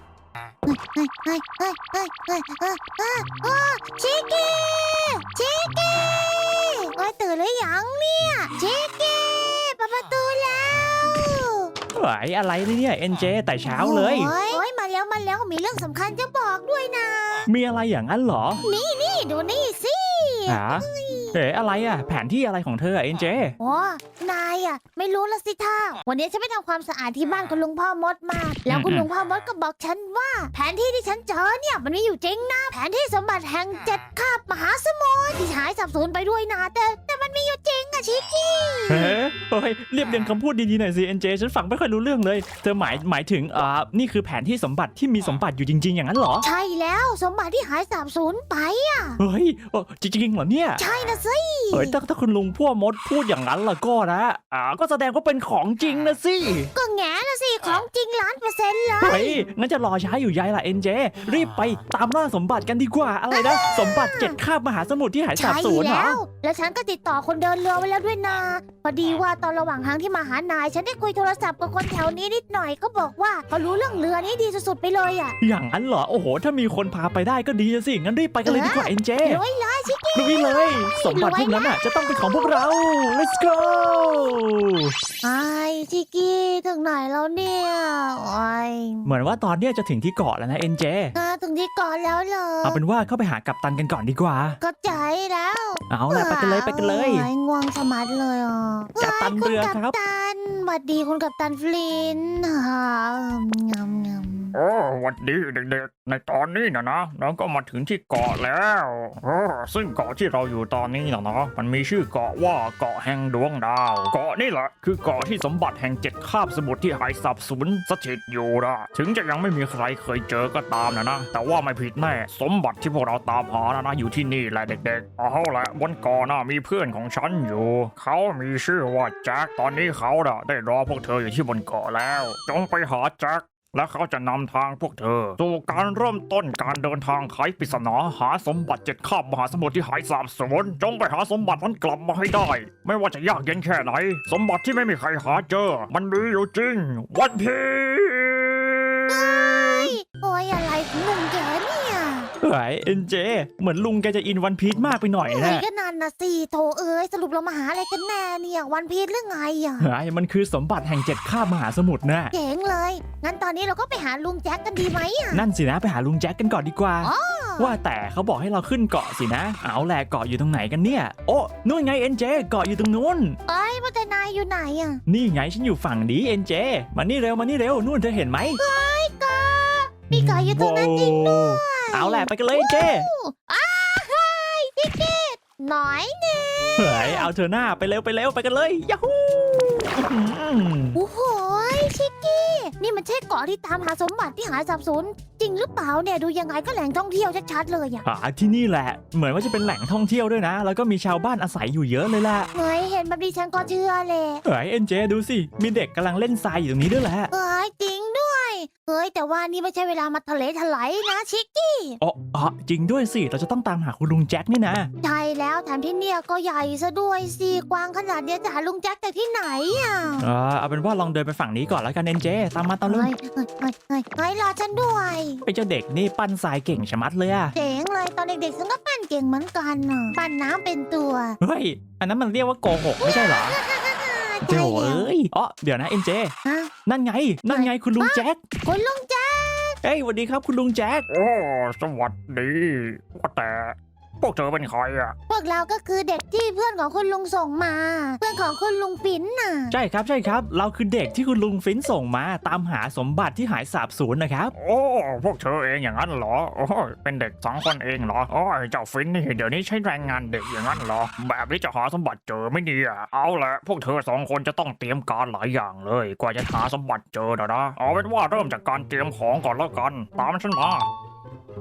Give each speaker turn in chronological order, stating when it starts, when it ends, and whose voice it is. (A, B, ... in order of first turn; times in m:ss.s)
0:00.6-0:11.7 A
0:11.9-0:14.3 B
0:13.7-0:17.5 A
0:17.4-0:18.6 B
0:18.6-0:21.4 A
0:20.5-0:23.5 B
0:23.6-0:39.2 A
0:28.7-0:29.1 B
0:38.9-0:46.4 B
0:46.4-0:49.2 A
0:49.2-0:50.8 B
0:50.8-0:52.0 A
0:51.7-0:56.7 B
0:56.7-0:59.4 A
0:59.0-1:06.2 B
1:03.3-1:04.4 A
1:05.4-1:15.3 A
1:15.4-1:19.4 B
1:18.4-1:21.8 A
1:20.2-1:24.9 B
1:25.2-1:29.1 A
1:29.0-1:31.1 B
1:31.1-1:32.8 A
1:32.6-1:34.6 B
1:34.6-1:44.6 A
1:35.9-1:37.3 B
1:39.0-1:39.9 B
1:44.5-2:29.5 C
2:29.1-2:32.3 A
2:32.4-2:35.6 B
2:35.3-2:39.9 A
2:39.8-2:42.3 B
2:42.3-2:45.4 A
2:45.3-2:53.4 B
2:47.0-2:47.7 A
2:53.5-2:55.0 A
2:55.1-2:58.6 B
2:58.6-3:07.3 A
3:00.1-3:03.1 B
3:06.8-3:11.0 B
3:10.9-3:18.0 A
3:18.0-3:22.5 B
3:22.5-3:24.4 A
3:24.4-3:27.3 B
3:27.3-3:32.0 A
3:32.0-3:34.9 B
3:35.0-3:40.3 A
3:40.2-3:43.1 B
3:42.8-3:45.4 A
3:45.4-3:47.5 B
3:47.5-3:51.4 A
3:51.4-3:53.6 B
3:53.0-3:55.1 A
3:54.5-3:56.3 B
3:56.4-3:56.7 A
3:56.8-3:58.4 B
3:57.5-3:59.8 A
3:59.8-4:01.0 B
4:01.1-4:05.2 C
4:05.3-4:09.8 A
4:09.7-4:14.5 B
4:14.6-4:30.9 C